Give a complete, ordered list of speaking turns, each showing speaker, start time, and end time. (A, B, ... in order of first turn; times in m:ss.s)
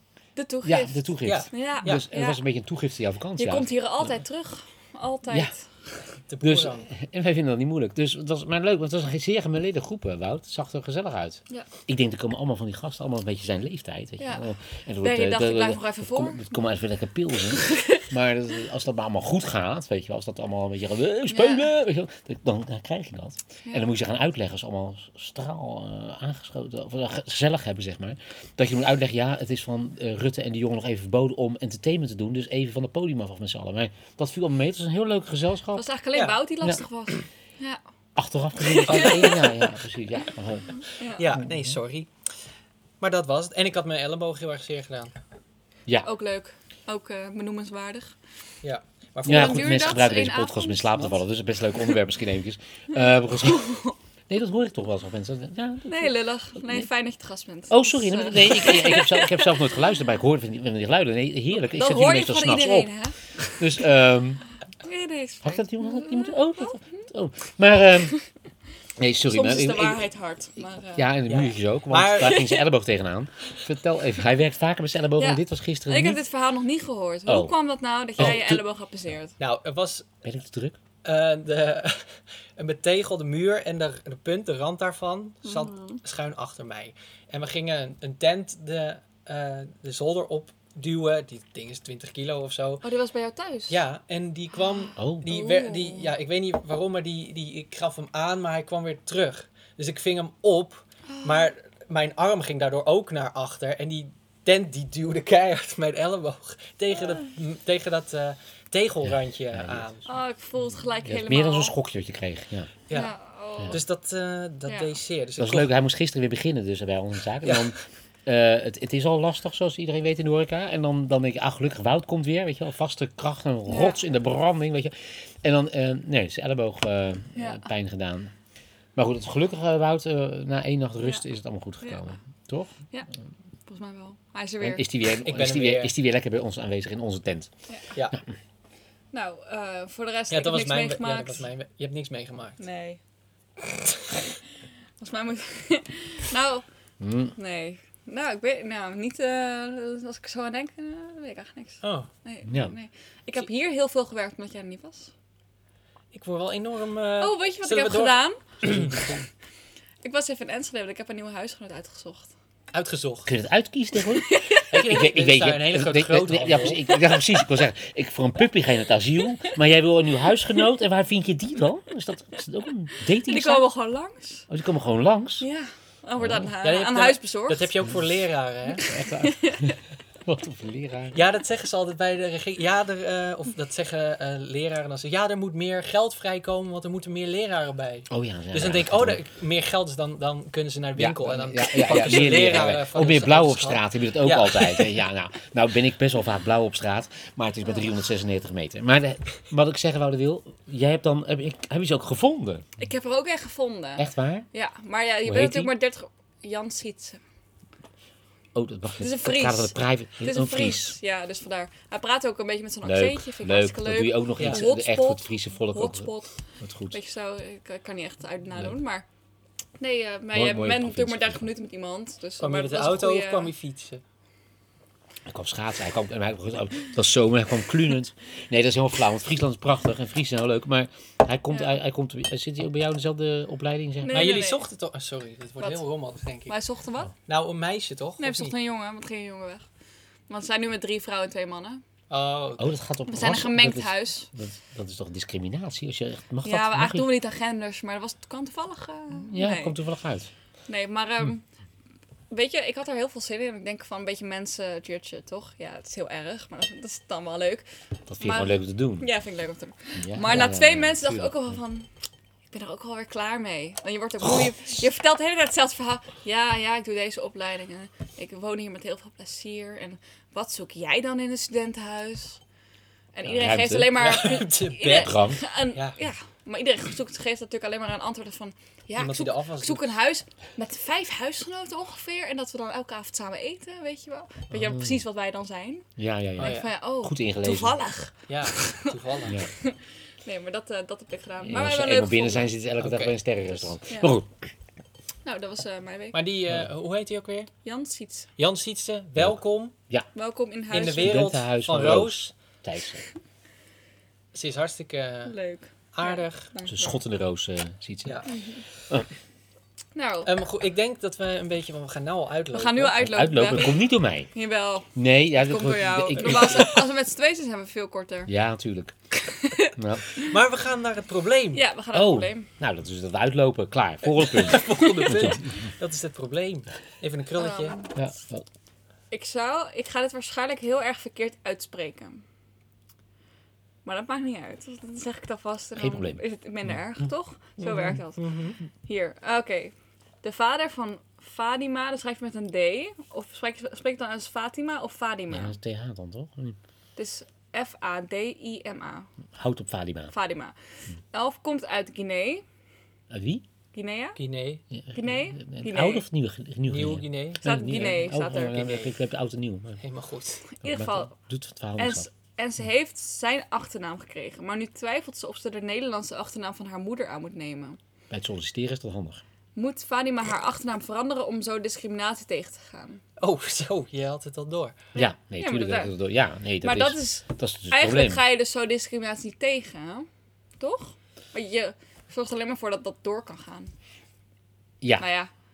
0:00.4-0:02.4 A
0:00.6-0:04.2 B
0:01.2-0:02.0 C
0:03.4-0:06.0 A
0:06.3-0:06.9 C
0:06.4-0:35.8 B
0:14.2-0:14.5 A
0:15.0-0:16.5 A
0:17.6-0:18.0 A
0:21.3-0:21.7 A
0:35.8-0:37.8 A
0:38.2-0:41.8 B
0:38.7-0:39.4 A
0:38.8-0:39.8 C
0:40.8-0:41.2 A
0:41.1-0:42.1 C
0:43.0-0:45.1 C
0:46.0-0:48.2 A
0:48.6-0:50.0 C
0:49.2-0:51.2 A
0:49.3-0:53.8 B
0:52.9-0:54.0 A
0:54.3-0:56.9 B
0:55.9-0:59.5 A
0:57.7-1:04.4 B
1:01.7-1:03.8 A
1:04.8-1:07.1 A
1:05.4-1:08.2 B
1:09.0-1:10.0 B
1:09.3-1:11.1 A
1:11.0-1:16.2 B
1:11.3-1:12.5 C
1:12.2-1:12.6 A
1:15.2-1:19.3 A
1:17.3-1:17.5 B
1:18.2-1:18.6 B
1:19.4-1:20.1 C
1:20.2-1:20.8 B
1:21.0-1:32.8 C
1:25.4-1:26.0 A
1:32.8-1:33.8 A
1:33.7-1:50.0 C
1:34.6-1:36.1 A
1:35.0-1:35.2 B
1:41.1-1:41.5 A
1:49.0-1:49.9 B
1:50.1-1:51.8 A
1:51.0-1:52.7 B
1:52.9-1:55.7 C
1:52.9-1:53.8 A
1:55.4-2:08.3 B
2:03.7-2:04.0 A
2:07.4-2:07.6 A
2:09.0-2:12.8 B
2:13.7-2:14.8 A
2:14.6-2:17.5 B
2:15.0-2:15.9 C
2:19.1-2:21.4 A
2:20.3-2:22.6 C
2:22.6-2:23.0 A
2:25.0-2:26.6 A
2:27.0-2:27.4 B
2:27.4-2:35.1 A
2:31.8-2:32.1 C
2:32.5-2:32.8 B
2:36.1-2:39.0 C
2:37.2-2:38.6 A
2:38.6-2:39.2 B
2:40.0-2:42.3 A
2:42.7-2:43.3 C
2:43.3-2:53.6 B
2:44.2-2:44.7 A
2:44.7-2:47.0 C
2:53.0-2:54.5 A
2:54.5-2:55.5 B
2:55.4-2:57.7 A
2:56.2-2:56.5 B
2:56.6-2:58.8 C
2:58.8-2:59.8 A
2:58.9-3:01.2 B
3:01.1-3:15.0 C
3:08.1-3:09.2 B
3:11.0-3:22.7 B
3:11.7-3:12.2 A
3:22.8-3:27.2 A
3:24.0-3:24.5 B
3:25.2-3:25.7 B
3:28.5-3:31.0 B
3:29.0-3:39.0 A
3:32.8-3:37.0 B
3:39.8-3:43.5 A
3:40.3-3:41.4 B
3:42.4-3:44.0 C
3:45.3-3:54.3 B
3:54.0-3:54.6 A
3:54.1-3:56.6 C
3:55.6-3:55.9 A
3:56.5-3:57.1 A
3:57.3-3:58.5 C
3:58.2-3:59.7 A
4:00.3-4:01.8 A
4:02.1-4:02.8 C
4:02.6-4:07.1 B
4:03.1-4:04.3 A
4:06.4-4:09.8 A
4:09.2-4:10.3 B
4:10.7-4:11.6 A
4:12.3-4:17.7 A
4:18.1-4:19.1 B
4:18.2-4:21.9 A
4:20.0-4:21.6 B
4:22.5-4:32.4 A
4:33.1-4:52.5 A
4:33.2-4:33.9 B
4:34.0-4:36.0 C
4:35.0-4:35.4 B
4:39.0-4:40.0 C
4:44.5-4:45.0 B
4:46.0-4:47.8 B
4:46.4-4:46.8 C
4:48.3-4:49.4 C
4:49.3-4:49.5 B
4:51.5-4:54.4 B
4:52.8-4:53.7 C
4:53.9-4:54.2 A
4:55.2-4:56.2 A
4:56.1-4:57.5 C
4:57.6-4:58.3 A
4:58.4-4:59.7 C
4:59.2-5:00.1 B
5:00.1-5:01.3 A
5:00.7-5:02.3 C
5:01.0-5:03.0 B
5:04.3-5:06.5 C
5:05.3-5:07.0 A
5:06.6-5:08.2 B
5:08.0-5:08.4 C
5:08.3-5:08.6 A
5:10.0-5:10.3 A
5:10.2-5:13.0 C
5:12.5-5:18.3 A
5:13.0-5:14.3 B
5:15.0-5:16.7 B
5:16.2-5:16.8 C
5:18.3-5:19.0 B
5:19.2-5:20.3 A
5:19.7-5:20.1 B
5:20.2-5:21.6 C
5:21.6-5:22.5 A
5:21.9-5:25.7 B
5:24.0-5:27.8 C
5:27.4-5:28.0 A
5:28.0-5:28.5 B
5:29.1-5:32.2 A
5:33.8-5:45.6 A
5:35.8-5:37.1 B
5:37.6-5:38.6 C
5:45.3-5:46.6 B
5:47.0-5:49.1 A
5:49.4-5:50.1 B
5:50.1-5:52.4 A
5:53.1-5:53.4 B
5:53.7-5:54.2 A
5:54.2-5:54.6 C
5:54.7-5:59.8 B
5:54.9-5:56.0 A
5:56.7-5:58.9 C
5:57.4-5:58.7 A
5:59.8-6:00.4 C
6:00.5-6:01.1 A
6:00.6-6:02.1 B
6:01.8-6:07.8 A
6:08.1-6:09.2 B
6:09.6-6:13.0 A
6:13.2-6:14.9 C
6:15.0-6:15.9 A
6:15.0-6:18.2 B
6:16.6-6:20.1 A
6:20.6-6:23.7 A
6:25.0-6:25.3 A